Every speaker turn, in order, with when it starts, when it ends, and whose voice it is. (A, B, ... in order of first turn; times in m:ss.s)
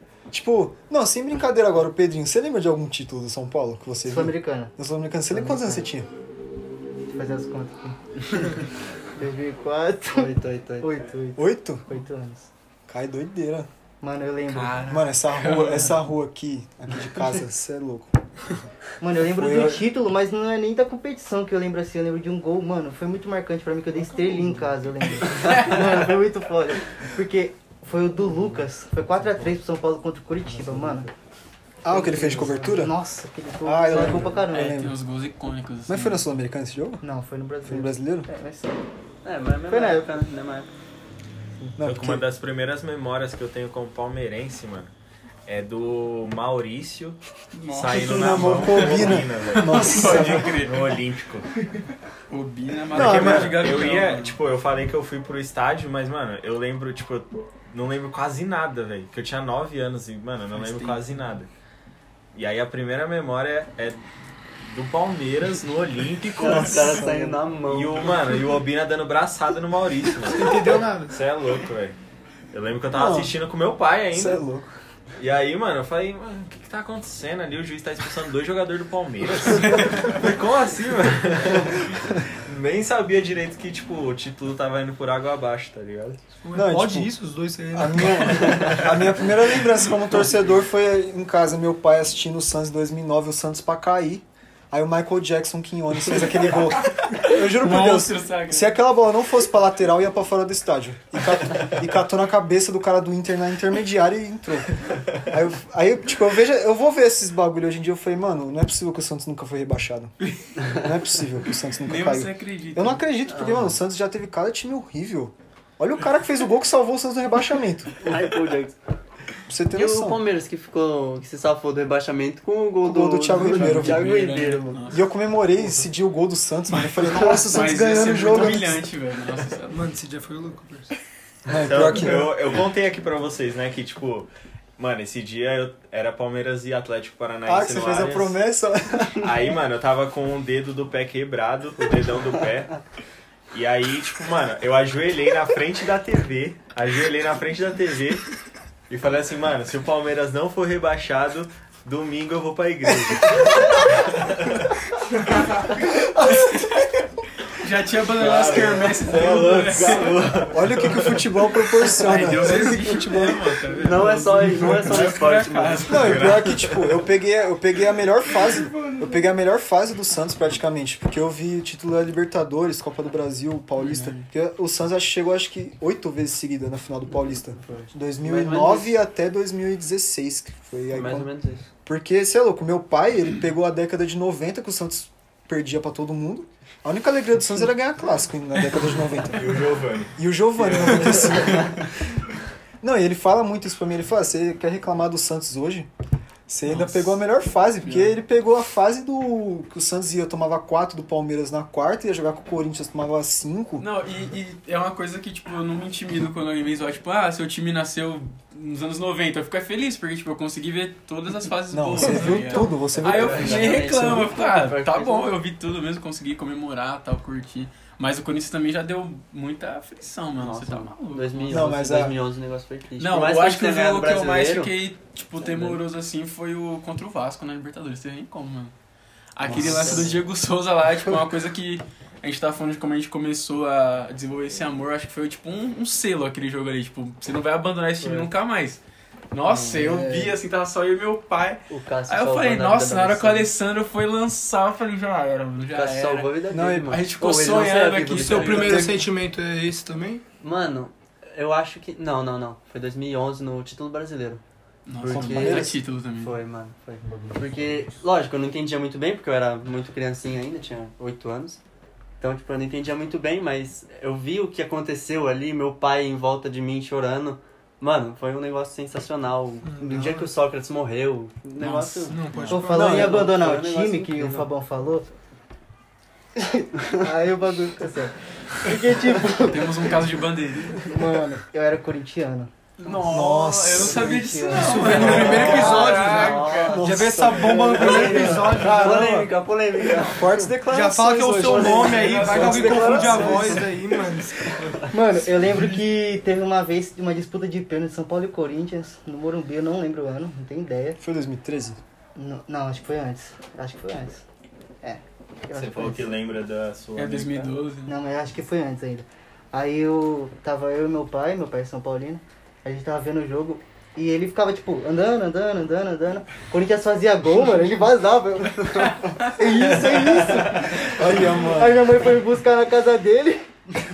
0:00.3-0:06.1 A
0:04.0-0:04.7 B
0:05.3-0:05.9 B
0:07.1-0:08.6 B
0:09.2-0:12.5 B
0:10.1-0:11.0 C
0:11.4-0:11.8 A
0:12.9-0:13.7 A
0:14.0-0:14.8 B
0:14.5-0:16.0 D
0:14.8-0:18.1 A
0:19.0-0:31.1 B
0:19.3-0:19.8 A
0:25.3-0:25.8 D
0:31.8-0:32.9 A
0:31.9-0:34.9 B
0:33.6-0:35.0 A
0:33.9-0:36.3 D
0:35.9-0:37.0 A
0:37.0-0:38.8 B
0:37.6-0:38.3 A
0:39.2-0:40.7 C
0:39.7-0:40.1 B
0:41.8-0:42.2 A
0:41.8-0:44.9 E
0:45.4-0:47.2 E
0:47.5-0:51.0 D
0:47.7-0:51.5 E
0:47.9-0:50.5 A
0:52.3-0:54.4 D
0:52.9-1:01.5 E
0:52.9-0:53.8 A
1:00.6-1:01.0 D
1:02.3-1:04.0 E
1:04.6-1:07.1 E
1:06.4-1:08.3 C
1:06.4-1:07.4 A
1:07.6-1:12.0 E
1:10.3-1:11.2 F
1:12.5-1:14.4 E
1:12.9-1:13.4 A
1:14.1-1:14.7 A
1:15.2-1:26.2 E
1:19.6-1:20.1 D
1:26.4-1:28.8 F
1:26.5-1:27.1 A
1:27.7-1:58.2 A
1:36.9-1:38.8 D
1:51.8-1:53.0 D
1:53.2-1:53.7 C
1:58.0-1:58.8 C
1:59.5-2:00.2 A
1:59.7-2:04.9 C
2:02.8-2:04.2 A
2:03.3-2:05.1 D
2:04.8-2:08.8 A
2:06.7-2:09.8 D
2:09.7-2:10.9 F
2:11.4-2:12.3 A
2:11.6-2:18.4 E
2:17.4-2:19.3 A
2:19.2-2:22.8 E
2:23.5-2:28.2 E
2:28.9-2:34.7 E
2:32.9-2:33.7 A
2:35.4-2:35.7 D
2:35.8-2:36.9 A
2:36.2-2:36.9 D
2:37.5-2:40.3 D
2:38.2-2:41.9 E
2:40.5-2:43.5 A
2:42.0-2:46.5 D
2:43.1-2:43.9 E
2:43.8-2:46.1 C
2:45.9-3:01.3 A
2:45.9-2:47.0 E
2:48.5-2:49.2 F
2:53.8-2:54.2 D
2:57.6-2:59.0 C
3:00.9-3:01.7 C
3:01.8-3:09.6 A
3:09.3-3:10.1 E
3:10.1-3:11.8 A
3:10.6-3:11.7 D
3:12.8-3:15.9 A
3:16.5-3:23.8 A
3:16.6-3:17.2 D
3:17.8-3:18.2 D
3:23.8-3:41.7 D
3:31.7-3:33.8 A
3:32.9-3:35.3 C
3:40.4-3:44.7 C
3:41.5-3:42.2 A
3:43.0-3:48.7 D
3:45.4-3:45.8 C
3:49.4-3:58.8 D
3:49.4-3:50.2 A
3:49.5-3:50.1 C
3:58.0-3:58.3 C
3:59.3-4:06.3 D
3:59.7-4:00.4 A
4:01.7-4:03.5 C
4:05.7-4:08.9 C
4:06.5-4:07.0 A
4:06.9-4:08.9 D
4:08.1-4:10.2 F
4:08.6-4:09.0 A
4:10.4-4:14.4 C
4:14.8-4:16.4 D
4:15.0-4:21.6 C
4:15.1-4:15.8 A
4:22.2-4:34.5 C
4:29.6-4:30.3 F
4:31.6-4:32.6 D
4:32.1-4:32.9 F
4:32.5-4:35.1 B
4:32.7-4:33.3 A
4:36.4-4:39.8 B
4:39.3-4:40.9 D
4:40.8-4:42.5 B
4:42.8-4:46.8 D
4:42.8-4:45.5 A
4:43.8-4:45.3 B
4:44.5-4:49.3 F
4:45.0-4:50.4 C
4:46.7-4:47.5 A
4:48.0-4:48.2 D
4:50.0-4:53.6 A
4:50.6-4:54.9 F
4:51.3-4:53.6 C
4:51.8-4:53.6 D
4:54.9-5:01.0 B
5:01.0-5:01.8 A
5:02.2-5:04.2 B
5:04.8-5:06.2 B
5:05.5-5:07.5 E
5:06.9-5:07.9 D
5:07.9-5:23.5 B
5:20.8-5:21.9 A